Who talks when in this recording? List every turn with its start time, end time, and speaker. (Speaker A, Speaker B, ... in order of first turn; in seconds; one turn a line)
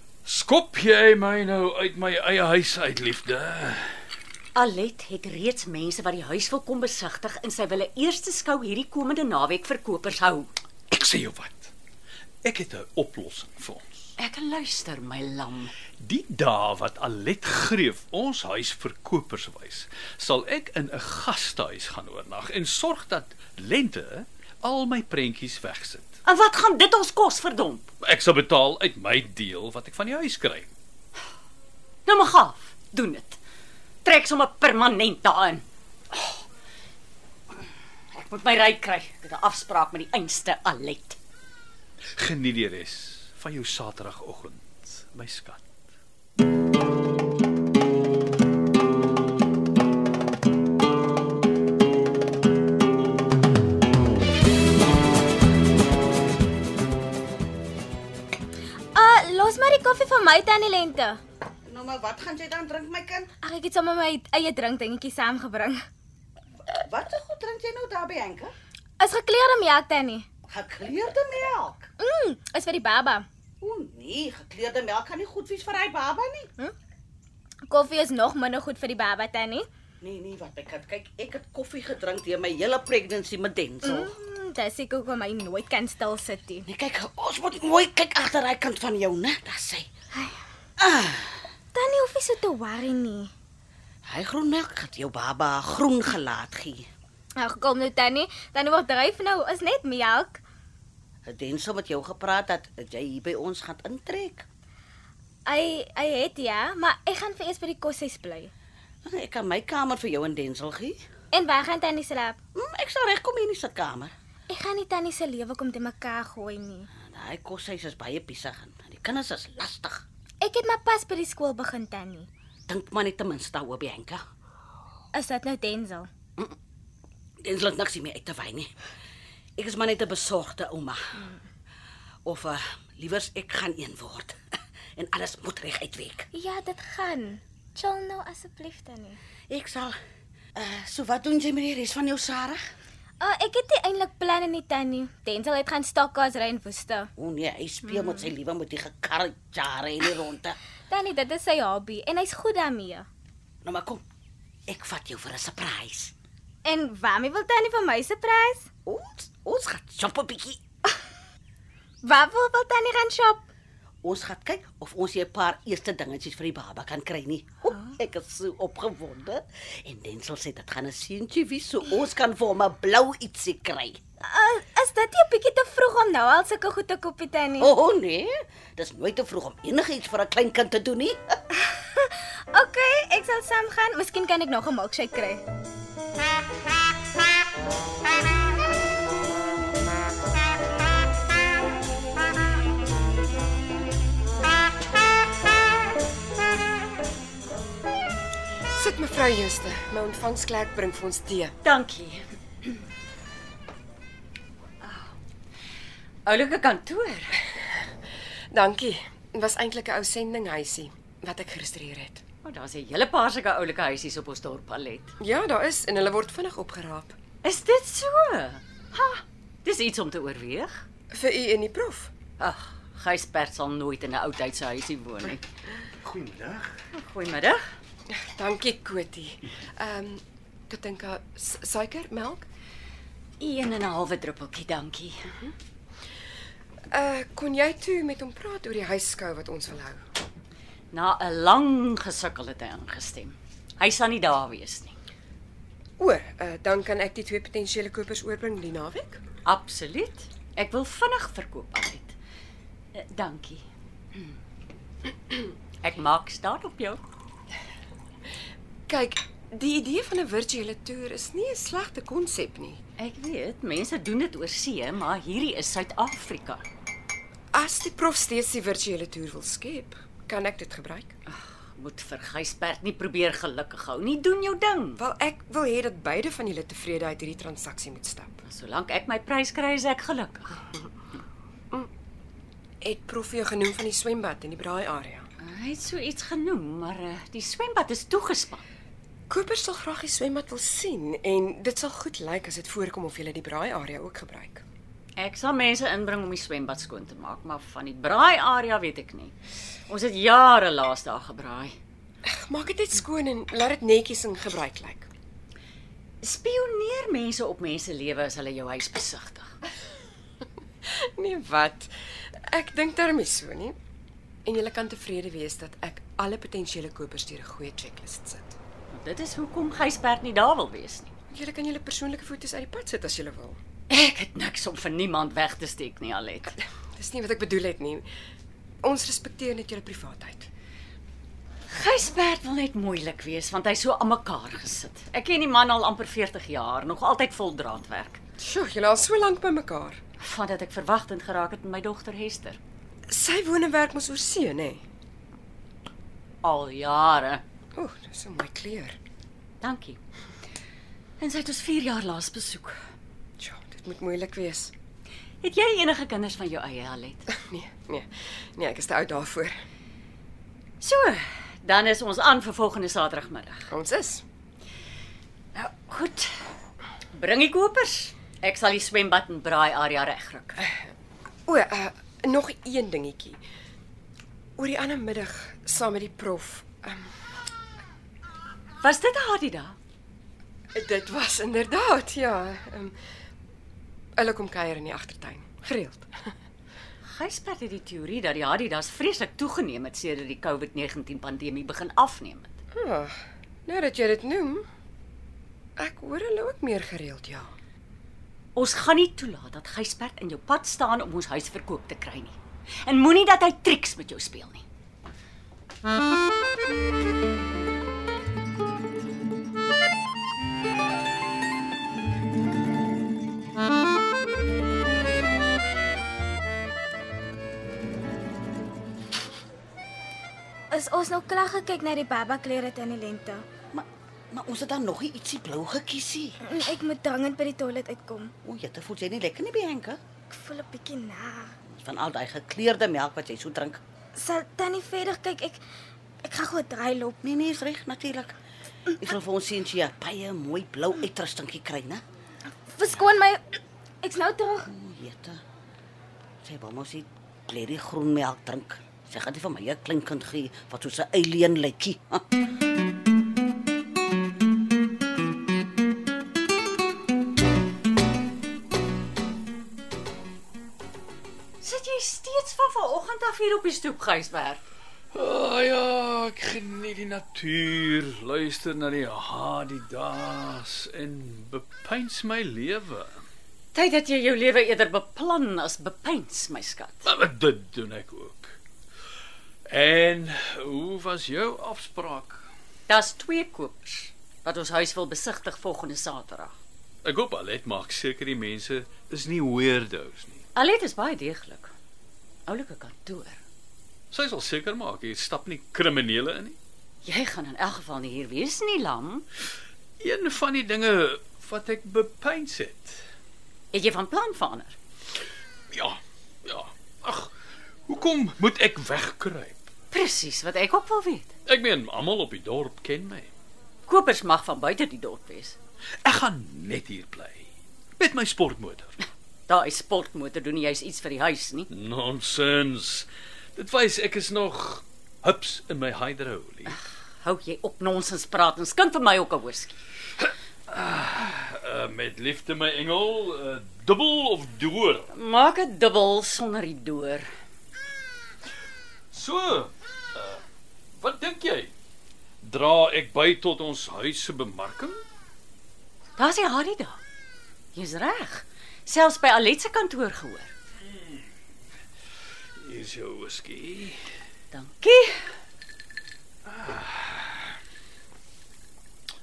Speaker A: 0.2-3.9
Speaker B: 4.6-10.5
Speaker A: 10.9-11.7
Speaker A: 12.4-14.1
Speaker B: 14.2-15.7
Speaker A: 16.0-26.2
Speaker B: 26.3-27.9
Speaker A: 28.0-30.7
Speaker B: 32.1-33.4
Speaker B: 34.0-36.3
Speaker B: 38.1-41.2
Speaker A: 42.2-45.8
Speaker C: 59.0-61.2
Speaker D: 61.6-63.3
Speaker C: 63.4-65.8
Speaker D: 66.7-68.5
Speaker C: 69.0-70.2
Speaker D: 70.5-71.9
Speaker C: 72.0-73.3
Speaker D: 73.6-76.5
Speaker C: 77.7-79.7
Speaker D: 80.0-84.1
Speaker C: 83.8-86.7
Speaker D: 86.7-89.9
Speaker D: 90.8-91.5
Speaker C: 91.7-93.3
Speaker D: 94.1-96.9
Speaker C: 97.4-100.4
Speaker D: 101.2-104.5
Speaker C: 105.5-108.5
Speaker D: 109.0-111.0
Speaker C: 111.3-112.4
Speaker D: 112.5-114.1
Speaker C: 114.5-116.9
Speaker D: 116.9-120.0
Speaker C: 120.4-122.3
Speaker D: 122.7-124.2
Speaker C: 125.1-126.1
Speaker D: 127.4-128.7
Speaker D: 129.6-131.3
Speaker D: 132.2-134.4
Speaker D: 135.0-136.3
Speaker C: 136.3-139.2
Speaker D: 139.5-140.0
Speaker D: 140.6-142.6
Speaker C: 143.2-147.1
Speaker D: 147.2-150.6
Speaker C: 147.9-148.3
Speaker C: 150.9-153.1
Speaker D: 153.6-154.0
Speaker D: 154.7-156.1
Speaker C: 156.6-158.7
Speaker D: 158.9-160.6
Speaker C: 162.0-163.4
Speaker D: 164.0-174.0
Speaker C: 174.2-177.7
Speaker D: 177.6-181.4
Speaker C: 181.6-185.4
Speaker E: 198.8-201.6
Speaker B: 201.6-202.7
Speaker B: 206.3-207.4
Speaker E: 208.5-212.2
Speaker B: 212.4-215.1
Speaker E: 215.2-217.2
Speaker B: 217.4-220.8
Speaker E: 221.1-222.1
Speaker B: 222.4-225.4
Speaker A: 226.1-226.7
Speaker B: 226.9-227.6
Speaker E: 228.1-232.5
Speaker B: 233.4-235.2
Speaker E: 236.9-240.0
Speaker B: 240.9-245.0
Speaker E: 246.0-249.2
Speaker B: 249.5-252.2
Speaker B: 252.9-253.6
Speaker B: 255.8-257.0
Speaker E: 258.9-262.8
Speaker B: 263.0-266.6
Speaker E: 267.5-271.1
Speaker B: 271.3-275.0
Speaker E: 275.0-278.4
Speaker B: 278.4-280.6
Speaker E: 282.8-285.3
Speaker B: 285.4-288.6
Speaker E: 289.3-294.6
Speaker B: 295.2-299.4
Speaker B: 299.9-301.8
Speaker E: 302.2-305.1
Speaker B: 306.2-309.5
Speaker E: 310.9-311.9
Speaker E: 312.5-313.8
Speaker E: 314.4-318.6
Speaker B: 318.9-321.1
Speaker E: 321.3-323.6
Speaker B: 323.9-326.5
Speaker E: 327.0-328.1
Speaker E: 328.8-330.5
Speaker B: 331.7-338.2
Speaker E: 338.4-340.0
Speaker B: 340.2-342.6
Speaker E: 343.1-344.9
Speaker B: 346.4-347.4
Speaker E: 347.8-349.0
Speaker B: 349.6-350.0
Speaker B: 351.2-352.8
Speaker E: 353.4-354.7
Speaker B: 355.4-357.2
Speaker E: 357.4-359.6
Speaker B: 360.8-363.6
Speaker E: 363.7-364.2
Speaker B: 365.6-366.3
Speaker B: 367.1-370.6
Speaker E: 371.5-373.4
Speaker E: 374.6-377.1
Speaker B: 378.8-379.8
Speaker E: 380.7-383.0
Speaker E: 384.2-386.3
Speaker B: 387.1-392.5
Speaker E: 392.7-394.7
Speaker E: 395.8-397.5
Speaker B: 398.6-404.6
Speaker C: 420.7-423.5
Speaker D: 423.7-426.4
Speaker C: 426.4-428.3
Speaker D: 428.4-430.0
Speaker C: 430.3-431.6
Speaker D: 431.7-433.8
Speaker C: 434.2-435.6
Speaker C: 436.2-437.2
Speaker D: 437.2-438.4
Speaker D: 439.0-442.0
Speaker C: 442.7-444.7
Speaker D: 444.7-445.4
Speaker D: 446.4-452.2
Speaker B: 461.6-464.6
Speaker A: 465.1-473.1
Speaker B: 473.8-477.1
Speaker A: 477.1-478.6
Speaker A: 479.7-482.4
Speaker B: 482.9-486.5
Speaker A: 487.0-490.4
Speaker B: 490.6-491.7
Speaker B: 492.5-493.4
Speaker A: 494.1-496.6
Speaker B: 497.1-499.3
Speaker A: 500.0-503.0
Speaker B: 503.7-504.8
Speaker A: 505.7-507.3
Speaker A: 507.9-509.7
Speaker B: 509.9-511.3
Speaker A: 511.5-513.3
Speaker B: 513.9-515.6
Speaker A: 516.0-519.0
Speaker B: 519.5-521.7
Speaker A: 521.7-526.8
Speaker B: 526.7-529.8
Speaker A: 530.2-535.1
Speaker B: 535.1-537.3
Speaker A: 539.1-540.4
Speaker A: 541.0-541.7
Speaker A: 542.4-545.0
Speaker B: 546.2-547.0
Speaker B: 547.8-550.5
Speaker A: 550.9-551.2
Speaker A: 552.6-554.0
Speaker B: 554.5-555.3
Speaker A: 556.5-557.5